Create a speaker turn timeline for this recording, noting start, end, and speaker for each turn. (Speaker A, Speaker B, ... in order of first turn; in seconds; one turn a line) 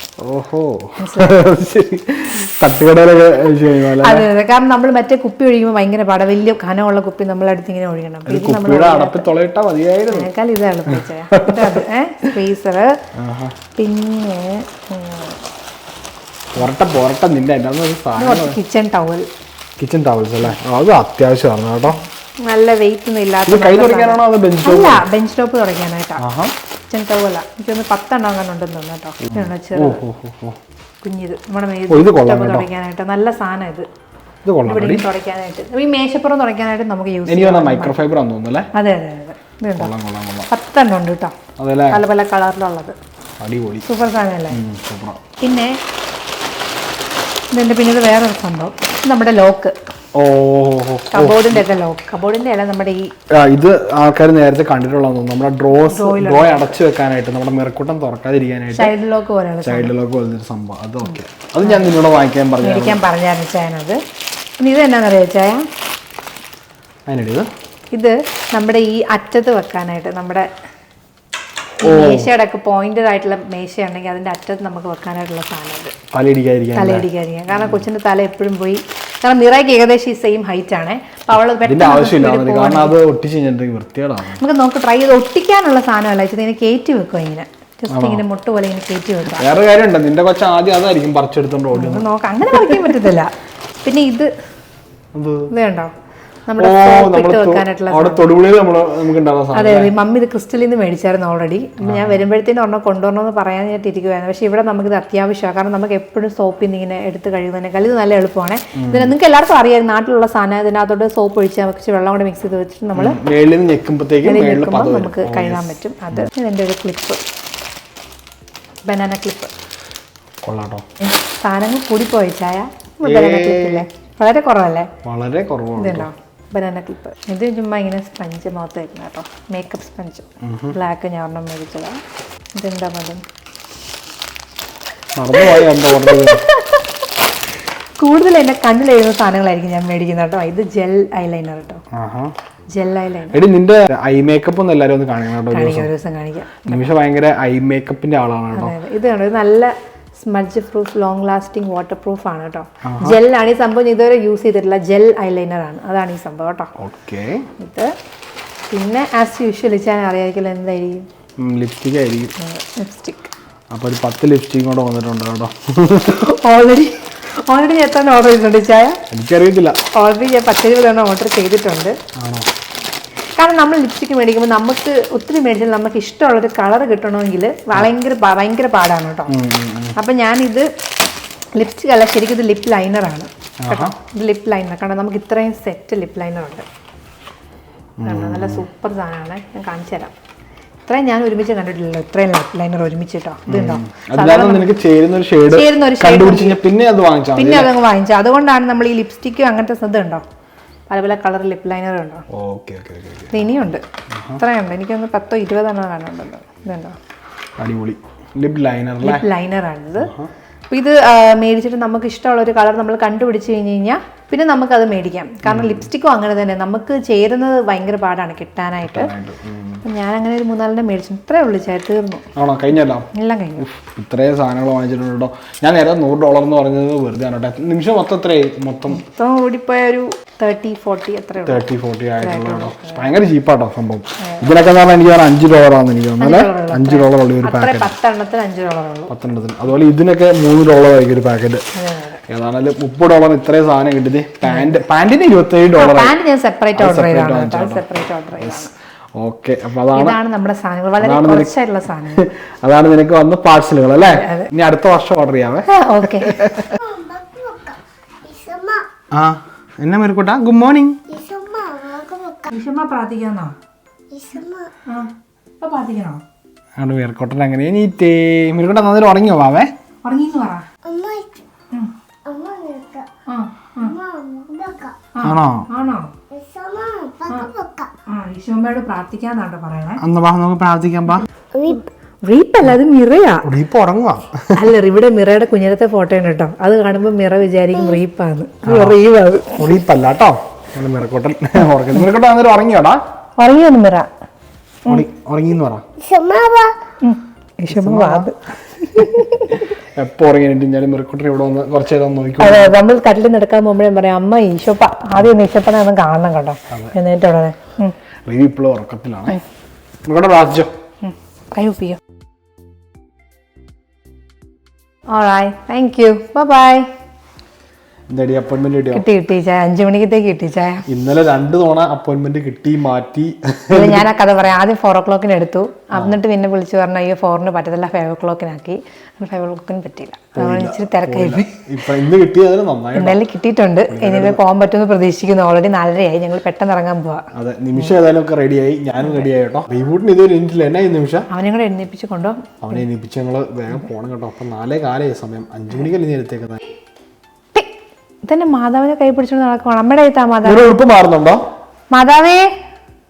Speaker A: 0.2-4.3
Speaker B: 1.0-1.4
Speaker B: 4.0-9.3
Speaker A: 8.3-10.3
Speaker B: 10.1-12.9
Speaker A: 10.8-11.8
Speaker A: 13.2-13.6
Speaker B: 13.7-15.4
Speaker A: 16.5-18.6
Speaker B: 18.2-19.2
Speaker A: 19.8-22.0
Speaker B: 21.9-26.2
Speaker A: 23.5-25.0
Speaker A: 26.2-26.5
Speaker B: 26.9-30.0
Speaker A: 29.2-30.6
Speaker B: 31.0-33.9
Speaker A: 31.9-32.7
Speaker A: 34.4-35.0
Speaker B: 34.6-38.0
Speaker A: 37.2-38.7
Speaker B: 38.7-39.9
Speaker A: 39.8-40.5
Speaker B: 40.5-41.3
Speaker A: 41.6-42.0
Speaker B: 41.9-43.0
Speaker A: 43.4-43.9
Speaker B: 43.8-44.6
Speaker A: 44.5-45.2
Speaker B: 45.4-45.8
Speaker B: 47.5-49.8
Speaker A: 50.1-51.6
Speaker B: 51.1-53.1
Speaker A: 53.3-58.9
Speaker B: 55.8-56.8
Speaker B: 58.7-59.9
Speaker A: 59.6-63.0
Speaker B: 61.0-62.0
Speaker B: 62.6-64.0
Speaker B: 64.6-65.6
Speaker A: 67.1-67.5
Speaker B: 67.9-70.5
Speaker A: 71.8-72.3
Speaker B: 71.8-75.9
Speaker A: 76.1-77.8
Speaker B: 76.7-83.0
Speaker A: 81.6-84.4
Speaker B: 84.3-89.5
Speaker A: 87.9-88.2
Speaker A: 89.2-92.1
Speaker B: 91.7-93.3
Speaker B: 93.8-94.3
Speaker A: 95.1-95.5
Speaker B: 95.5-95.9
Speaker B: 96.5-98.2
Speaker A: 96.6-99.9
Speaker B: 99.5-113.2
Speaker A: 101.8-102.2
Speaker A: 108.8-109.1
Speaker A: 113.0-116.3
Speaker B: 114.2-117.2
Speaker B: 118.8-119.5
Speaker A: 120.4-120.8
Speaker B: 121.0-124.9
Speaker A: 123.0-123.8
Speaker A: 125.0-126.1
Speaker B: 125.8-132.0
Speaker A: 130.4-130.8
Speaker B: 132.5-133.2
Speaker A: 135.2-136.4
Speaker B: 135.4-136.9
Speaker B: 138.0-141.8
Speaker A: 141.9-142.3
Speaker B: 142.7-143.4
Speaker A: 143.3-145.9
Speaker B: 145.5-146.8
Speaker A: 146.7-148.7
Speaker B: 148.5-156.7
Speaker A: 152.8-153.2
Speaker A: 156.8-157.4
Speaker B: 157.6-157.9
Speaker B: 158.7-161.0
Speaker A: 161.4-162.3
Speaker B: 162.4-163.3
Speaker A: 163.7-166.2
Speaker B: 166.1-169.0
Speaker A: 169.1-169.8
Speaker B: 169.9-171.9
Speaker A: 172.2-172.5
Speaker B: 173.3-179.3
Speaker A: 179.3-180.0
Speaker B: 179.9-180.7
Speaker B: 181.5-186.6
Speaker A: 183.6-183.9
Speaker A: 188.0-188.7
Speaker B: 188.0-190.1
Speaker B: 190.8-194.7
Speaker A: 193.5-197.7
Speaker B: 195.5-196.6
Speaker B: 197.3-200.2
Speaker B: 200.9-202.2
Speaker A: 202.3-203.4
Speaker B: 203.3-203.8
Speaker A: 204.1-204.4
Speaker B: 204.4-206.9
Speaker A: 207.6-209.3
Speaker B: 209.0-210.1
Speaker A: 210.0-210.3
Speaker B: 210.7-219.1
Speaker A: 215.4-215.8
Speaker A: 218.8-219.8
Speaker B: 219.8-222.2
Speaker A: 222.3-229.0
Speaker B: 223.1-223.7
Speaker B: 228.9-231.7
Speaker A: 231.4-237.9
Speaker B: 232.2-233.1
Speaker B: 234.2-234.5
Speaker B: 236.2-239.1
Speaker A: 239.1-241.6
Speaker B: 241.7-242.2
Speaker A: 242.3-246.1
Speaker B: 244.4-244.8
Speaker B: 245.7-248.7
Speaker A: 246.8-247.8
Speaker A: 248.4-250.2
Speaker B: 249.9-252.3
Speaker A: 251.0-251.6
Speaker A: 252.1-256.8
Speaker B: 254.0-254.5
Speaker B: 255.7-256.4
Speaker C: 256.8-258.8
Speaker A: 259.1-261.0
Speaker C: 261.1-262.5
Speaker B: 262.5-263.5
Speaker C: 264.1-264.7
Speaker B: 264.9-266.2
Speaker A: 266.8-269.7
Speaker B: 270.0-270.6
Speaker C: 270.8-271.4
Speaker C: 272.2-273.1
Speaker B: 273.2-274.0
Speaker C: 273.9-275.0
Speaker B: 275.1-276.1
Speaker A: 275.2-275.7
Speaker C: 276.3-277.9
Speaker B: 278.1-280.0
Speaker A: 280.0-281.3
Speaker C: 281.5-281.8
Speaker B: 281.7-283.4
Speaker A: 283.4-284.6
Speaker B: 284.5-289.7
Speaker A: 288.6-289.0
Speaker A: 289.6-293.0
Speaker B: 293.4-294.1
Speaker A: 294.9-295.8
Speaker C: 296.0-296.7
Speaker B: 297.0-299.8
Speaker A: 297.7-298.3
Speaker A: 299.8-302.7
Speaker B: 302.4-307.9
Speaker A: 308.3-309.4
Speaker A: 310.0-310.7
Speaker B: 311.0-312.0
Speaker B: 315.1-316.9
Speaker A: 318.1-319.1
Speaker B: 318.9-320.9
Speaker A: 320.9-324.1
Speaker B: 323.7-331.5
Speaker A: 330.4-333.2
Speaker B: 332.9-337.2
Speaker A: 333.9-334.4
Speaker A: 337.3-341.3
Speaker B: 339.0-339.2
Speaker B: 341.3-342.8
Speaker A: 342.6-346.6
Speaker B: 348.2-350.7
Speaker A: 350.4-351.4
Speaker B: 351.9-352.5